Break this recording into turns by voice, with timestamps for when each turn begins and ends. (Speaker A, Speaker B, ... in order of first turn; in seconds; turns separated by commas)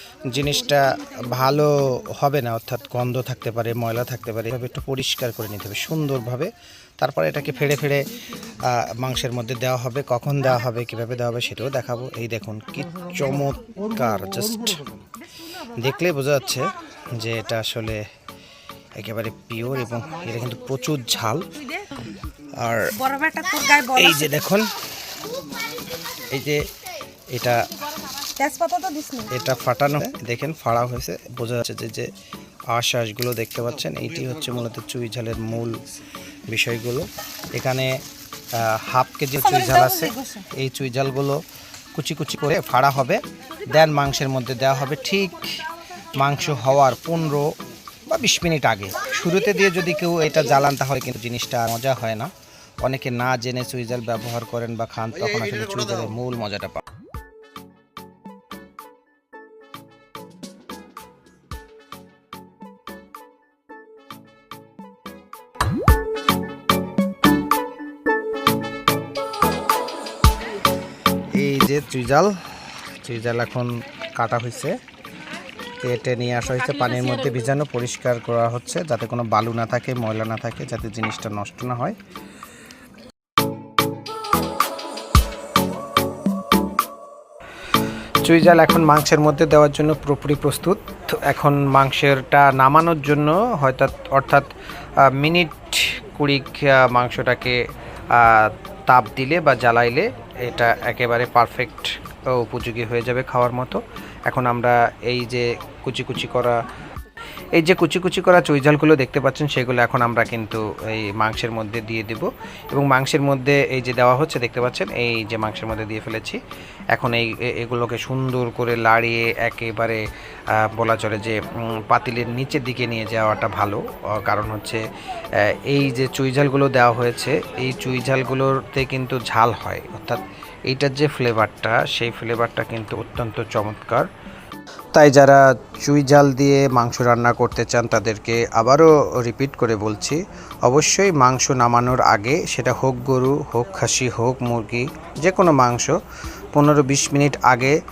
Speaker A: 0.2-18.1, Speaker A: 18.9-23.1, Speaker B: 23.0-24.1, Speaker A: 23.6-25.4, Speaker A: 25.9-26.8, Speaker A: 27.3-27.9, Speaker B: 28.3-29.3, Speaker A: 29.3-32.1, Speaker A: 32.7-35.8, Speaker A: 36.5-38.0, Speaker A: 38.5-41.4, Speaker B: 39.6-40.4, Speaker A: 42.0-47.5, Speaker A: 48.1-56.9, Speaker A: 71.3-74.8, Speaker A: 75.8-82.0, Speaker A: 88.2-106.6, Speaker A: 107.5-116.4, Speaker A: 116.9-134.1, Speaker A: 134.9-146.0, Speaker A: 146.5-147.8